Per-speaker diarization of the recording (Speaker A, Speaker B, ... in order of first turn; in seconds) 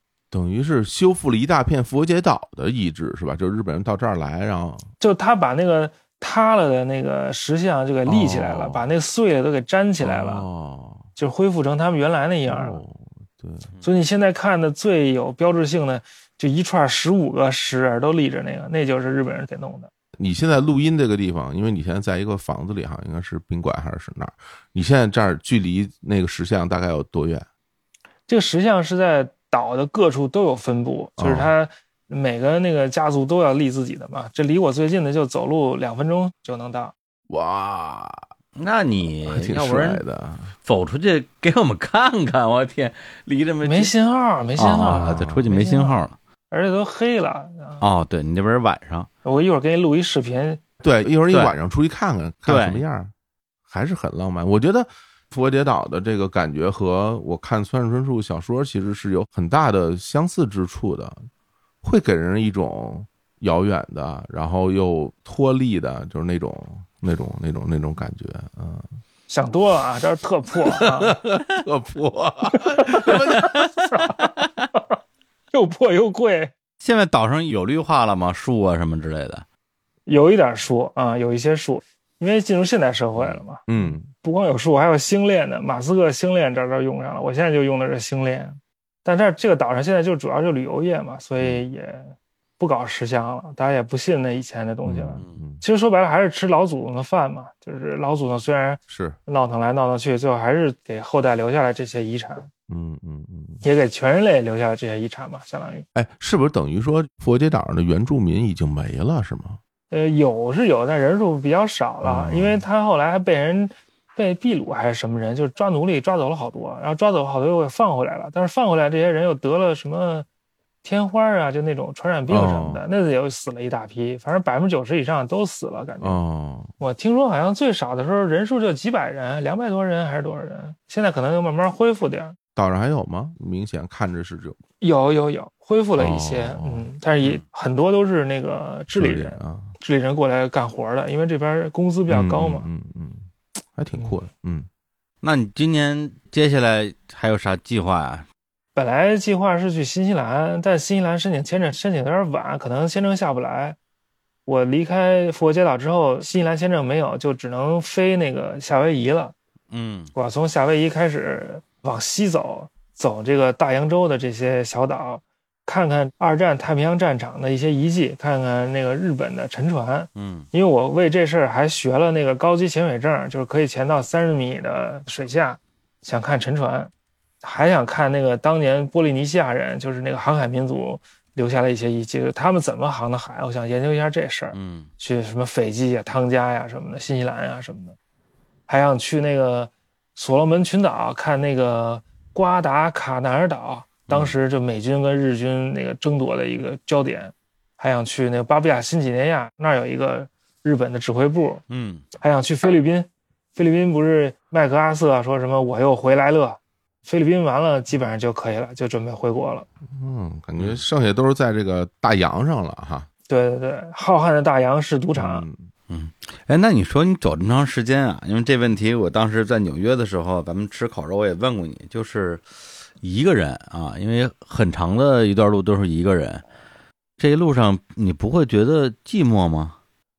Speaker A: 0.3-4.9, 8.1-8.9, 10.0-11.1, 12.5-13.7, 20.2-27.4, 31.2-31.5, 37.3-38.2, 39.2-40.5, 44.8-45.5, 50.8-53.1, 53.7-61.2, 61.8-68.9, 70.7-73.6, 83.7-84.1, 94.8-95.6, 98.9-99.2, 102.7-103.6, 105.9-109.6, 112.0-112.6, 122.3-122.8, 126.0-126.7, 132.5-134.6, 136.0-136.8, 138.9-139.7, 142.1-144.7, 209.9-213.1, 215.1-215.7
Speaker B: 5.0-10.4, 11.2-12.8, 13.8-19.9, 28.3-36.9, 43.6-47.8, 49.2-50.6, 69.3-71.2, 72.5-74.8, 75.5-76.5, 80.0-102.5, 103.6-105.8, 109.9-120.2, 120.8-126.2, 126.8-132.3, 134.8-142.7, 148.7-153.8, 154.4-159.3, 160.1-176.9, 177.4-187.9, 188.7-201.6, 202.1-209.7, 213.3-215.4
Speaker C: 38.5-40.0, 40.6-43.9, 44.6-46.1, 47.8-49.1, 52.5-52.8, 73.4-73.7, 76.8-79.4, 145.2-148.2, 159.7-160.1, 170.2-170.5, 184.5-184.9, 194.1-194.3, 201.7-202.0, 215.9-222.4, 223.0-226.4, 227.2-229.8